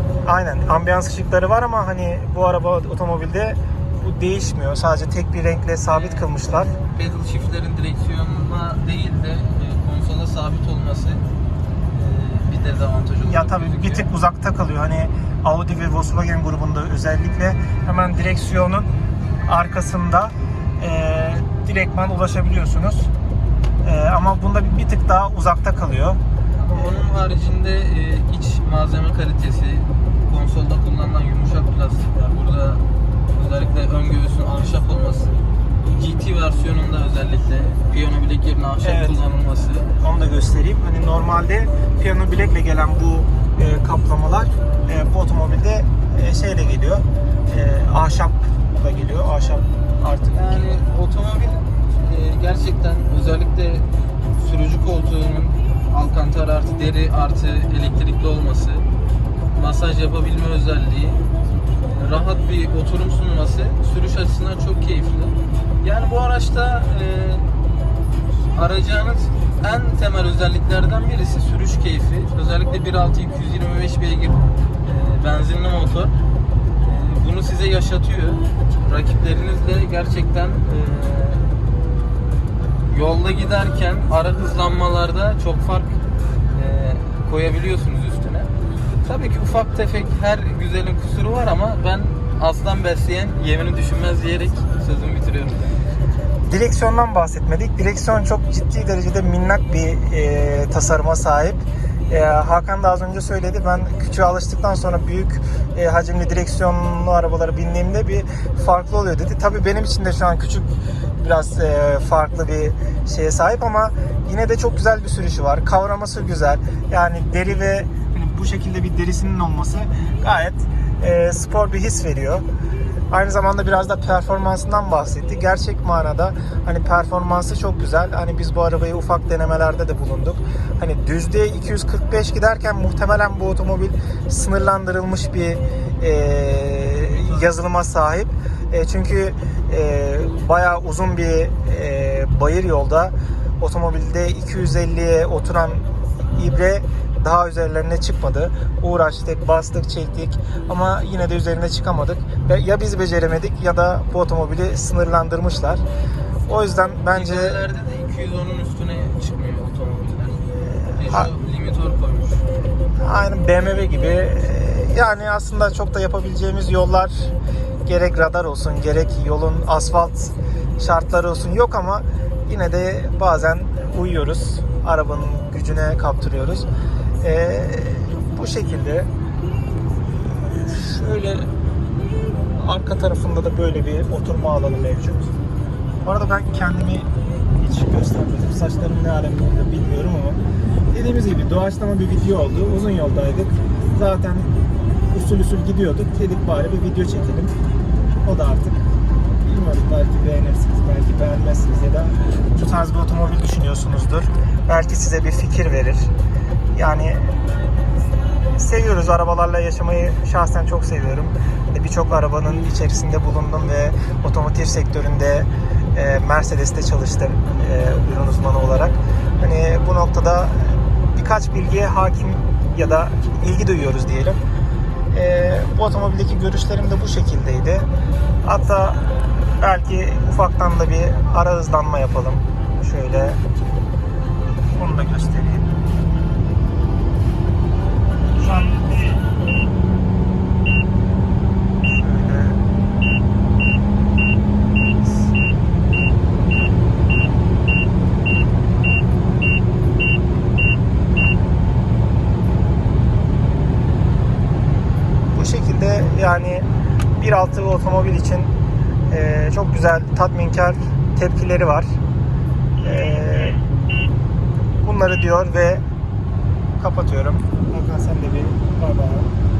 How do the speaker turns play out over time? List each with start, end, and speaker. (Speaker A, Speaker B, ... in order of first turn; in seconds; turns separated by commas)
Speaker A: 0.2-6.7, Speaker B: 5.9-11.2, Speaker B: 11.9-14.1, Speaker A: 13.2-18.9, Speaker A: 19.4-23.1, Speaker A: 23.8-26.2, Speaker B: 26.6-39.9, Speaker A: 38.8-39.2, Speaker A: 40.0-50.7, Speaker B: 50.3-58.9, Speaker B: 59.5-61.2, Speaker B: 61.8-67.5, Speaker B: 68.5-76.1, Speaker B: 76.8-81.5, Speaker B: 82.9-86.0, Speaker B: 86.5-88.5, Speaker B: 89.0-95.8, Speaker A: 96.5-122.4, Speaker A: 123.1-155.8, Speaker B: 137.0-137.5, Speaker A: 156.5-157.6, Speaker B: 157.1-160.4, Speaker A: 160.6-161.3, Speaker B: 160.9-162.4, Speaker A: 163.0-167.3, Speaker A: 167.8-176.7, Speaker A: 177.2-179.1, Speaker A: 180.2-181.5, Speaker A: 182.6-185.3, Speaker A: 186.0-187.1, Speaker A: 187.6-190.4, Speaker A: 190.9-194.5, Speaker A: 195.1-197.5, Speaker A: 198.2-198.8, Speaker A: 199.4-206.1, Speaker A: 206.7-207.4, Speaker A: 208.5-224.4, Speaker A: 225.1-227.9, Speaker A: 228.4-233.4, Speaker A: 234.7-235.8, Speaker A: 238.4-239.0, Speaker A: 241.8-242.6, Speaker A: 245.0-245.3, Speaker A: 255.3-256.6, Speaker A: 257.2-258.5, Speaker A: 259.1-261.9, Speaker A: 262.8-263.6, Speaker A: 264.8-265.8, Speaker A: 266.8-269.3